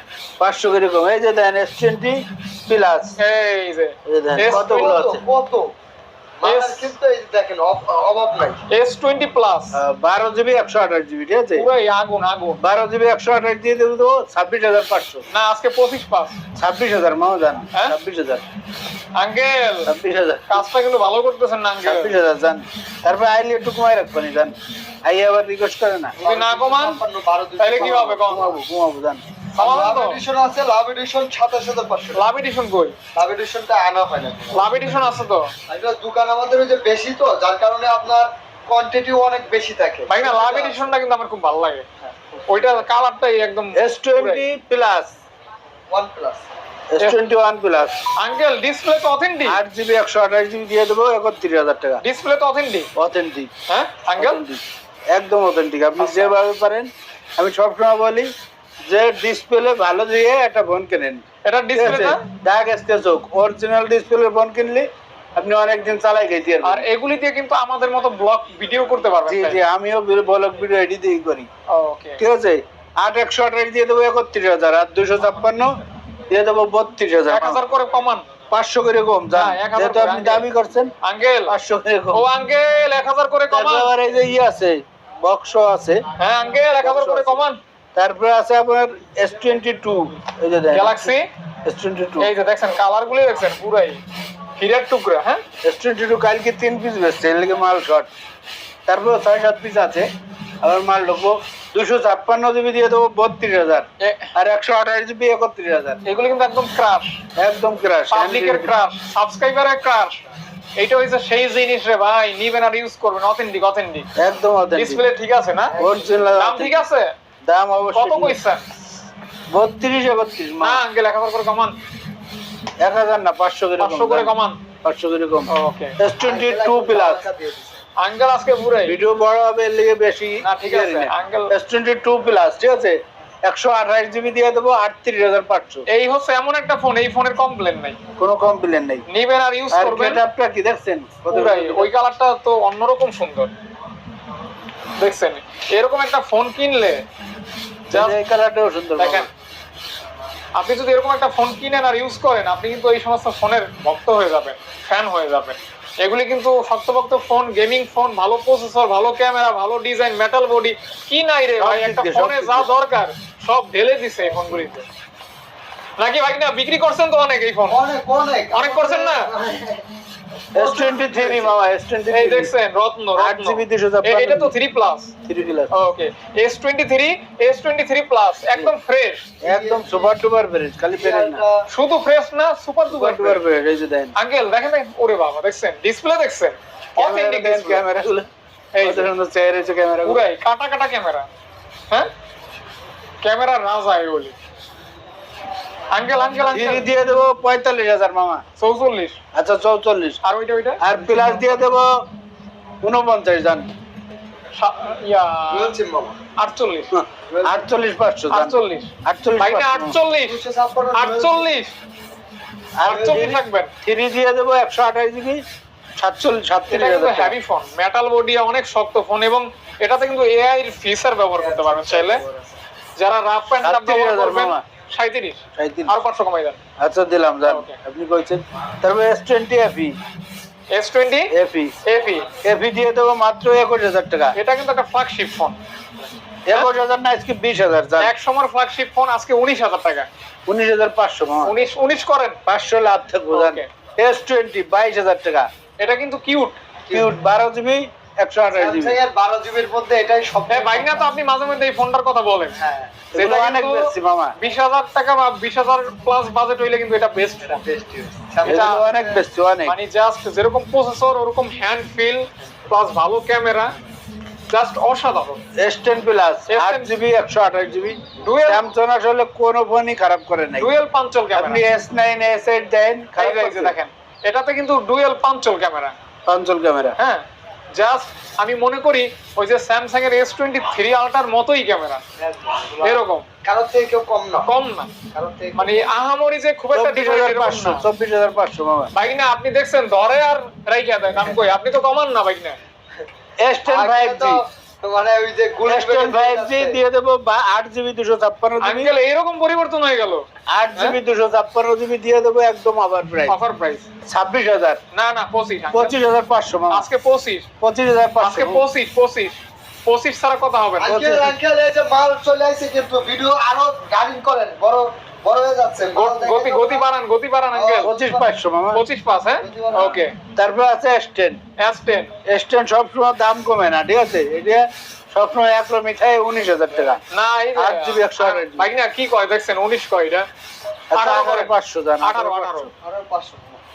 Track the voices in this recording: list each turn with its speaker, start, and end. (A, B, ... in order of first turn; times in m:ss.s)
0:00.4-0:03.2 A
0:03.2-0:04.8 B
0:04.0-0:05.2 A
0:04.4-0:05.7 C
0:06.4-0:08.6 C
0:06.4-0:06.9 B
0:08.7-0:09.8 B
0:09.7-0:11.7 A
0:11.6-0:12.6 B
0:12.6-0:15.2 A
0:15.3-0:16.4 B
0:16.6-0:18.4 A
0:19.2-0:19.9 B
0:19.8-0:20.6 A
0:20.5-0:22.1 B
0:21.8-0:24.5 A
0:25.0-0:26.1 A
0:26.2-0:28.2 C
0:26.2-0:27.0 B
0:27.6-0:28.6 B
0:27.8-0:29.2 A
0:29.6-0:32.2 C
0:29.6-0:30.2 B
0:32.1-0:32.9 B
0:33.2-0:35.0 C
0:34.5-0:35.5 B
0:35.7-0:40.9 C
0:40.1-0:41.8 B
0:42.0-0:42.8 C
0:42.5-0:44.4 B
0:43.8-0:45.1 A
0:45.9-0:46.4 C
0:46.9-0:48.0 A
0:48.2-0:49.6 B
0:49.4-0:52.0 A
0:52.0-0:52.9 B
0:53.0-0:53.5 A
0:53.7-0:54.4 B
0:54.2-0:58.3 A
0:56.0-0:56.3 C
0:58.9-1:01.2 A
1:01.4-1:02.2 B
1:01.7-1:06.8 A
1:06.6-1:09.6 B
1:09.2-1:11.5 A
1:11.7-1:12.2 B
1:12.2-1:15.7 A
1:16.3-1:17.6 A
1:17.3-1:18.2 B
1:18.5-1:20.9 A
1:19.3-1:20.5 B
1:21.0-1:21.6 B
1:21.5-1:22.3 A
1:22.1-1:23.9 B
1:23.5-1:26.0 A
1:26.2-1:27.6 B
1:26.8-1:32.3 A
1:30.7-1:31.3 B
1:32.2-1:34.0 B
1:34.6-1:35.4 B
1:35.6-1:38.1 A
1:38.8-1:40.1 A
1:40.6-1:46.0 A
1:44.0-1:44.3 B
1:46.0-1:47.2 B
1:47.4-1:48.7 A
1:48.1-1:50.2 B
1:50.8-1:54.1 B
1:54.2-1:55.0 A
1:54.8-1:55.7 B
1:55.7-1:56.4 C
1:55.8-1:56.8 A
1:56.3-1:57.1 B
1:57.4-1:58.4 A
1:57.9-1:58.7 B
1:59.5-2:00.8 A
2:00.6-2:01.8 B
2:02.8-2:04.3 A
2:03.8-2:04.6 B
2:04.8-2:07.2 A
2:05.5-2:05.9 B
2:06.2-2:07.8 C
2:08.0-2:09.0 B
2:08.8-2:15.8 A
2:10.4-2:11.5 B
2:15.9-2:18.0 B
2:18.2-2:19.0 A
2:19.1-2:20.2 B
2:19.7-2:21.9 A
2:21.3-2:23.5 B
2:25.0-2:27.0 B
2:27.9-2:29.3 A
2:27.9-2:28.2 B
2:29.0-2:29.3 B
2:30.6-2:44.8 B
2:41.6-2:42.7 A
2:46.0-2:47.8 B
2:47.7-2:49.8 C
2:48.5-2:49.3 B
2:50.5-2:51.6 C
2:50.5-2:52.5 A
2:52.1-2:55.1 B
2:53.1-2:54.5 A
2:55.2-2:55.7 A
2:55.7-2:59.2 B
2:59.4-3:00.1 C
2:59.4-3:01.4 A
3:01.0-3:01.6 C
3:01.7-3:03.4 B
3:02.9-3:04.1 A
3:04.2-3:07.8 B
3:07.0-3:08.3 A
3:08.7-3:09.1 B
3:08.8-3:10.2 A
3:10.0-3:11.3 B
3:13.2-3:14.4 B
3:15.9-3:16.9 B
3:16.5-3:18.4 A
3:18.6-3:19.2 B
3:19.3-3:20.2 A
3:20.2-3:21.5 B
3:20.8-3:21.9 A
3:22.8-3:23.7 A
3:24.5-3:25.7 B
3:25.5-3:26.2 C
3:26.4-3:26.9 B
3:26.9-3:30.0 A
3:27.3-3:27.6 C
3:28.3-3:30.4 B
3:30.2-3:31.6 C
3:30.9-3:31.7 B
3:32.8-3:35.4 A
3:32.9-3:33.7 B
3:32.9-3:33.2 C
3:36.0-3:37.3 A
3:36.7-3:42.2 B
3:41.3-3:42.6 C
3:43.0-3:46.6 B
3:43.6-3:44.6 A
3:45.6-3:45.9 A
3:46.8-3:50.0 A
3:47.4-3:47.8 B
3:50.7-3:51.3 B
3:51.3-3:51.8 A
3:51.8-3:52.3 B
3:52.4-3:54.3 A
3:54.3-3:55.6 B
3:56.5-3:58.1 A
3:58.0-4:00.1 B
4:00.5-4:01.6 A
4:01.4-4:02.4 B
4:02.5-4:05.5 A
4:03.3-4:03.7 B
4:05.8-4:06.6 B
4:06.9-4:09.0 A
4:08.5-4:11.1 C
4:10.5-4:12.6 B
4:12.6-4:13.0 C
4:13.1-4:14.3 A
4:13.1-4:17.6 B
4:17.5-4:19.2 C
4:18.4-4:19.8 A
4:18.5-4:18.8 B
4:19.6-4:23.7 B
4:24.5-4:25.4 B
4:25.6-4:30.7 A
4:26.5-4:27.0 B
4:28.2-4:28.7 B
4:30.6-4:31.6 B
4:31.3-4:33.8 A
4:33.2-4:35.9 B
4:36.2-4:37.0 A
4:37.0-4:42.0 B
4:42.2-4:44.5 C
4:42.8-4:43.2 B
4:44.5-4:44.9 B
4:45.1-4:45.9 C
4:45.5-4:47.8 B
4:46.7-4:48.9 A
4:48.9-4:52.6 B
4:53.4-4:54.4 A
4:53.7-4:56.8 C
4:55.7-4:58.9 A
4:58.6-5:00.2 B
5:00.5-5:03.4 A
5:03.3-5:03.8 B
5:04.1-5:04.8 A
5:04.9-5:05.9 B
5:05.7-5:06.9 A
5:06.7-5:07.4 B
5:07.6-5:08.6 A
5:08.2-5:10.9 B
5:10.8-5:16.9 C
5:10.8-5:11.3 A
5:15.9-5:17.9 B
5:17.5-5:18.3 C
5:17.8-5:18.8 A
5:18.7-5:20.1 B
5:19.4-5:20.0 C
5:19.7-5:21.4 A
5:21.6-5:22.1 B
5:22.2-5:27.0 A
5:27.1-5:30.3 B
5:27.6-5:28.7 A
5:30.9-5:32.7 A
5:30.9-5:32.7 B
5:32.8-5:33.6 C